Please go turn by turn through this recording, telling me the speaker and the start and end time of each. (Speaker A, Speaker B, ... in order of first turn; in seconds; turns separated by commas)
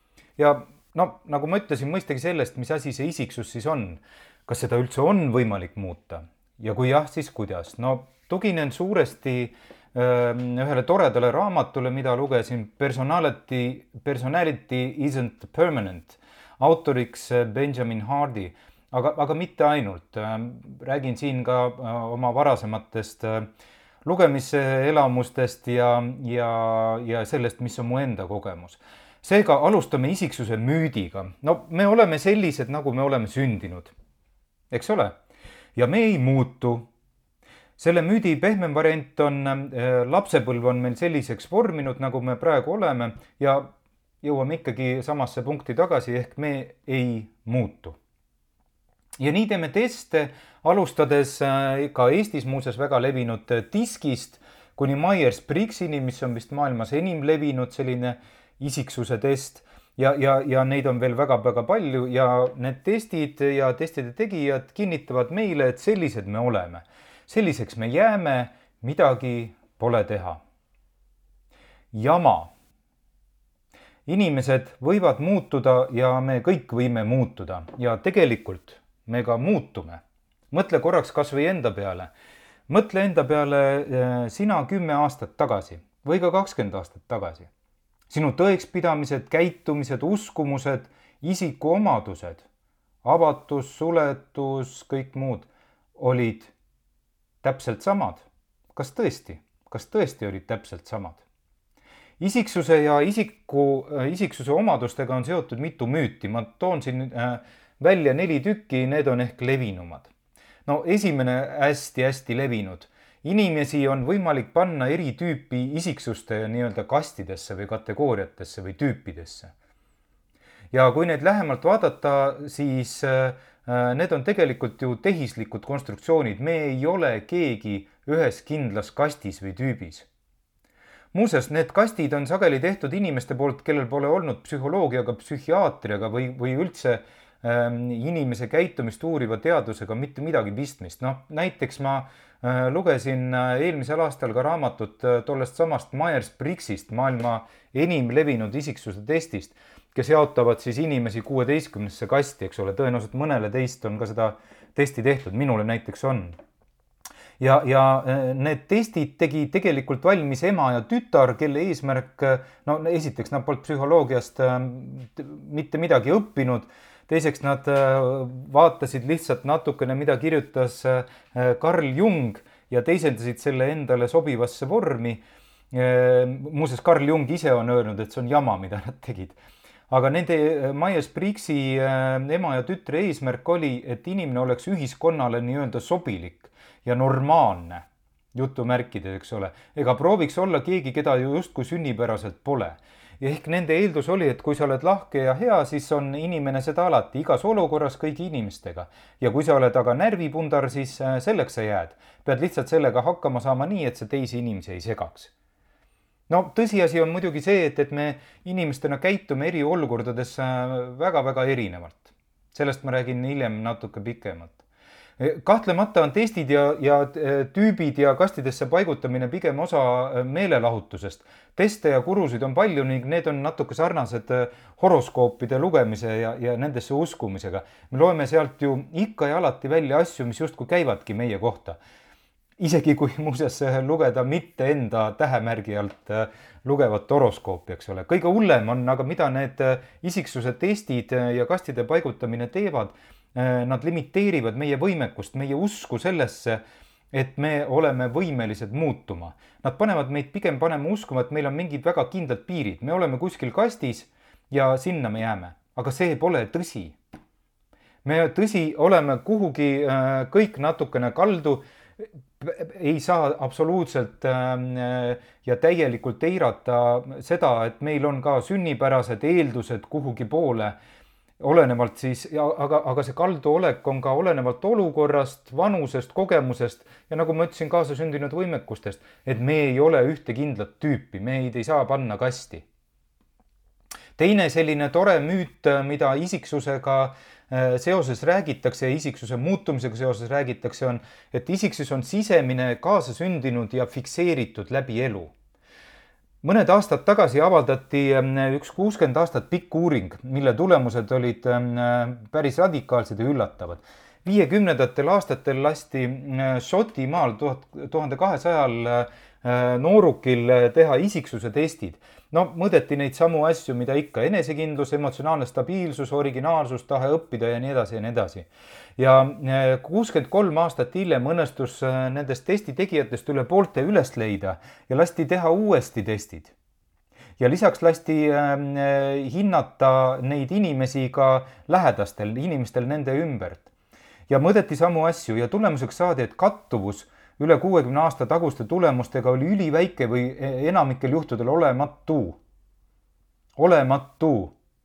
Speaker A: 0.4-23.5, Speaker A: 24.0-33.9, Speaker A: 34.7-35.2, Speaker A: 35.8-36.9, Speaker A: 37.8-48.0, Speaker A: 49.2-70.4, Speaker A: 71.9-72.5, Speaker A: 74.0-82.1, Speaker A: 82.7-87.5, Speaker A: 88.1-92.5, Speaker A: 93.0-96.5, Speaker A: 97.4-101.2, Speaker A: 102.2-110.1, Speaker A: 110.7-119.5, Speaker A: 120.7-130.1, Speaker A: 131.1-156.4, Speaker A: 157.4-175.2, Speaker A: 175.7-179.4, Speaker A: 179.9-205.3, Speaker A: 206.3-214.6, Speaker A: 215.2-231.8, Speaker A: 232.6-246.6, Speaker A: 247.1-257.0, Speaker A: 258.0-270.8, Speaker A: 271.4-282.6, Speaker A: 284.1-295.3, Speaker A: 296.4-326.5, Speaker A: 327.4-333.7, Speaker A: 334.3-342.4, Speaker A: 343.6-344.5